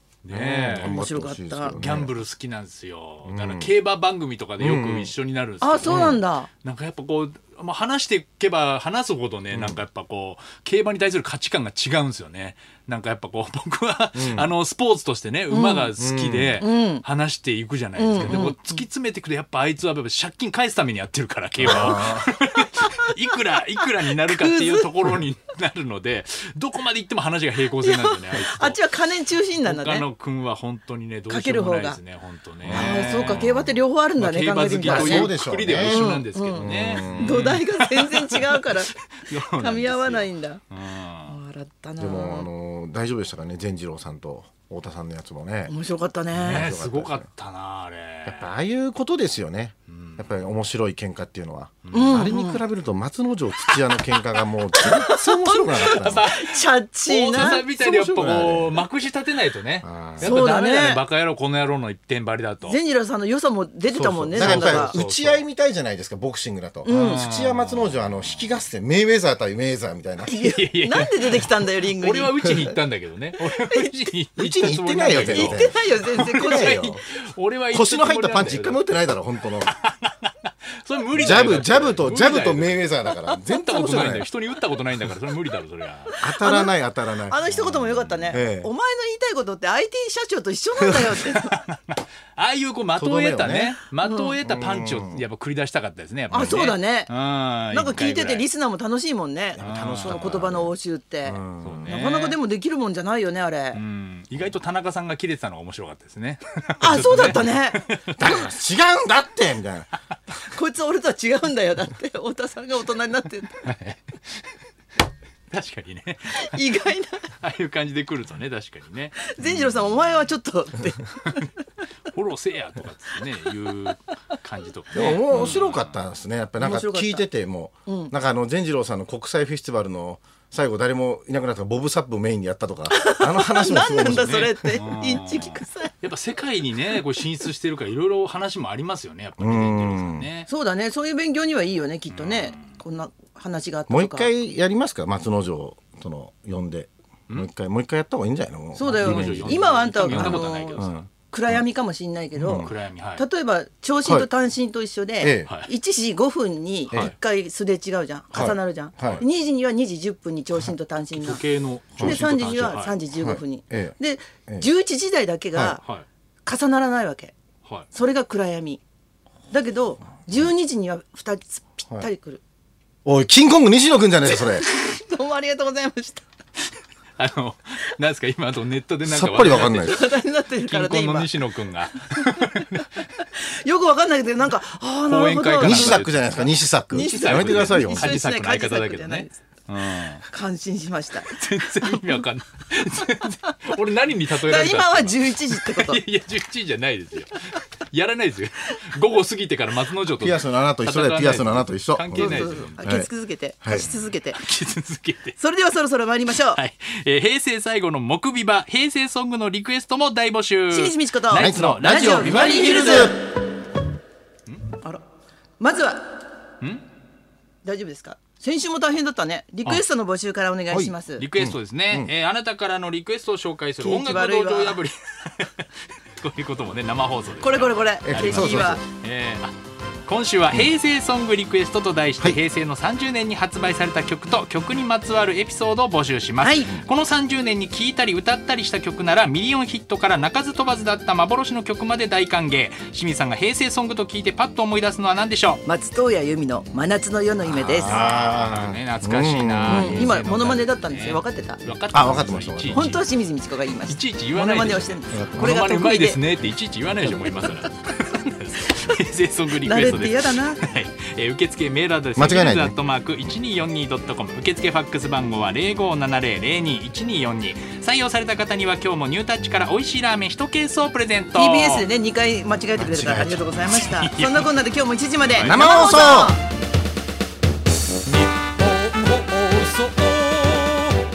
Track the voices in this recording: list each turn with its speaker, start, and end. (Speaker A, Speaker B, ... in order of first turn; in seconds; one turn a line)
Speaker A: 0.2-1.0
Speaker B: 0.3-2.1
Speaker C: 0.8-1.8
Speaker A: 1.7-28.9
Speaker B: 3.2-3.7
Speaker B: 4.6-5.1
Speaker C: 5.6-6.5
Speaker B: 5.9-6.2
Speaker B: 9.5-9.8
Speaker B: 14.1-14.5
Speaker C: 15.5-15.9
Speaker B: 15.9-16.6
Speaker C: 16.6-17.0
Speaker C: 17.9-18.8
Speaker B: 21.6-22.3
Speaker C: 22.8-25.2
Speaker C: 27.8-30.1
Speaker A: 29.6-41.4
Speaker C: 31.3-32.0
Speaker B: 32.6-33.7
Speaker C: 32.7-40.6
Speaker B: 34.8-37.6
Speaker C: 41.2-42.5
Speaker B: 42.0-45.7
Speaker C: 45.7-46.7
Speaker A: 46.3-48.5
Speaker B: 46.4-47.3
Speaker B: 48.2-56.3
Speaker A: 49.9-50.4
Speaker A: 51.9-52.3
Speaker C: 51.9-52.6
Speaker C: 54.8-57.6
Speaker A: 55.9-62.8
Speaker B: 57.3-58.8
Speaker B: 59.8-60.5
Speaker C: 60.2-61.0
Speaker C: 62.6-65.0
Speaker B: 63.9-70.3
Speaker A: 64.3-65.4
Speaker C: 66.8-67.2
Speaker A: 66.9-68.5
Speaker C: 70.2-72.8
Speaker A: 70.3-79.2
Speaker C: 73.4-73.9
Speaker B: 74.4-77.0
Speaker C: 75.1-77.0
Speaker B: 77.7-79.7
Speaker A: 79.7-82.8
Speaker B: 81.1-84.3
Speaker A: 83.5-86.2
Speaker C: 86.1-86.7
Speaker B: 86.2-87.4
Speaker C: 87.3-91.5
Speaker A: 87.5-88.2
Speaker B: 88.3-88.7
Speaker A: 91.2-98.5
Speaker B: 93.0-93.8
Speaker C: 94.0-94.4
Speaker B: 94.4-95.2
Speaker C: 96.3-97.1
Speaker B: 96.3-96.6
Speaker C: 97.7-103.8
Speaker B: 99.6-100.7
Speaker A: 99.6-100.5
Speaker B: 101.2-101.9
Speaker A: 101.6-102.4
Speaker A: 103.7-108.4
Speaker C: 106.8-107.9
Speaker B: 108.2-109.9
Speaker C: 110.5-113.7
Speaker A: 113.6-114.5
Speaker A: 115.5-116.6
Speaker C: 116.3-117.3
Speaker A: 117.4-120.0
Speaker C: 119.2-121.5
Speaker A: 121.2-121.5
Speaker A: 122.1-126.0
Speaker B: 124.9-134.8
Speaker C: 125.1-125.5
Speaker C: 126.6-127.3
Speaker C: 127.9-128.1
Speaker C: 132.9-135.9
Speaker A: 134.0-140.5
Speaker B: 139.4-140.3
Speaker C: 140.5-144.3
Speaker A: 142.1-142.8
Speaker B: 143.9-151.6
Speaker C: 148.7-161.4
Speaker A: 148.8-151.0
Speaker B: 152.3-152.7
Speaker A: 152.5-153.2
Speaker B: 155.2-155.5
Speaker A: 155.4-155.7
Speaker B: 158.3-159.2
Speaker A: 158.3-159.2
Speaker A: 161.2-162.9
Speaker B: 162.0-163.9
Speaker C: 162.0-165.8
Speaker B: 165.5-165.8
Speaker A: 165.8-166.1
Speaker C: 166.4-167.3
Speaker C: 167.9-168.8
Speaker C: 169.5-172.4
Speaker B: 173.0-174.6
Speaker C: 174.3-176.2
Speaker A: 177.2-183.0
Speaker B: 179.1-180.0
Speaker C: 179.8-181.3
Speaker C: 182.1-186.1
Speaker A: 185.1-190.2
Speaker B: 185.6-188.2
Speaker C: 186.9-189.3
Speaker C: 190.2-192.2
Speaker A: 191.2-202.9
Speaker C: 194.4-196.0
Speaker B: 200.2-203.1
Speaker C: 202.1-204.4
Speaker B: 203.6-203.9
Speaker A: 203.7-205.4
Speaker C: 205.4-206.6
Speaker A: 206.5-213.1
Speaker C: 210.7-213.2
Speaker B: 211.3-213.1
Speaker C: 215.6-216.1
Speaker C: 217.6-221.2
Speaker B: 220.7-222.1
Speaker A: 221.2-229.6
Speaker C: 223.8-224.8
Speaker C: 227.4-228.8
Speaker B: 228.0-228.8
Speaker A: 230.1-245.6
Speaker C: 236.4-236.7
Speaker C: 245.6-248.1
Speaker B: 247.5-250.1
Speaker A: 247.7-253.1
Speaker C: 249.7-251.6
Speaker B: 251.9-252.9
Speaker C: 252.7-256.2
Speaker A: 253.9-271.9
Speaker B: 255.1-255.6
Speaker C: 259.6-260.6
Speaker B: 262.1-262.7
Speaker C: 271.4-276.4
Speaker B: 272.8-273.5
Speaker A: 273.5-274.5
Speaker A: 275.3-275.6
Speaker B: 275.4-276.4
Speaker A: 278.4-280.8